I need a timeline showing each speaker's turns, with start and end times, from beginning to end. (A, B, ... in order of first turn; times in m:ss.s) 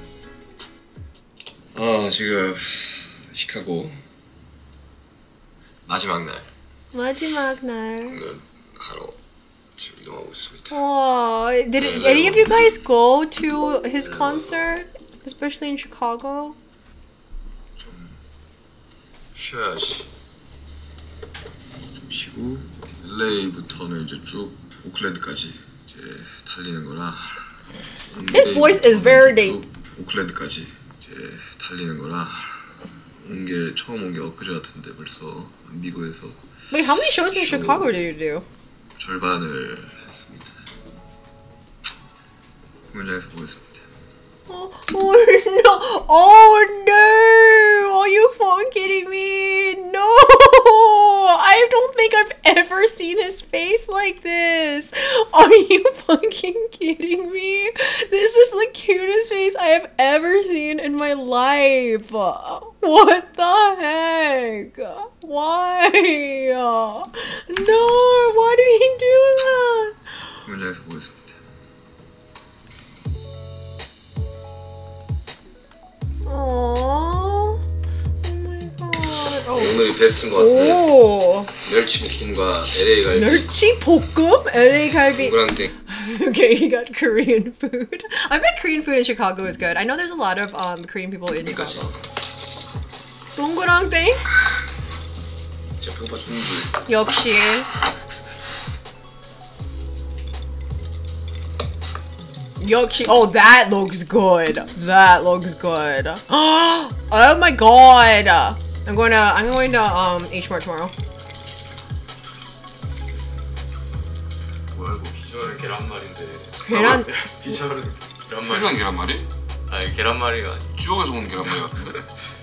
0:01.7-0:04.0 A
0:05.9-0:06.5 A
0:06.9-0:08.2 B
0:08.1-0:09.2 A
0:09.8-0:10.8 A
0:10.7-0:16.6 B
0:11.8-0:12.7 A
0:14.1-0:14.5 A
0:17.8-0:18.1 A
0:19.4-0:20.1 A
0:22.0-0:27.4 A
0:28.1-0:38.0 A
0:28.3-0:29.6 B
0:36.7-0:38.5 B
0:39.0-0:40.5 A
0:42.9-0:43.9 A
0:44.5-1:10.0 B
1:10.4-1:11.4 A
1:16.3-1:17.6 B
1:18.2-1:21.5 B
1:19.0-1:20.9 A
1:21.5-1:23.5 A
1:23.1-1:31.9 B
1:25.1-1:25.7 A
1:31.4-1:32.0 A
1:33.4-1:34.2 B
1:35.8-1:36.8 A
1:36.9-1:37.7 B
1:42.6-1:50.9 B
1:54.8-1:55.2 A
1:55.2-1:58.8 C
1:56.6-1:57.1 B
1:56.7-1:57.0 A
1:58.4-1:59.3 A
1:59.7-2:00.7 C
2:00.8-2:01.9 A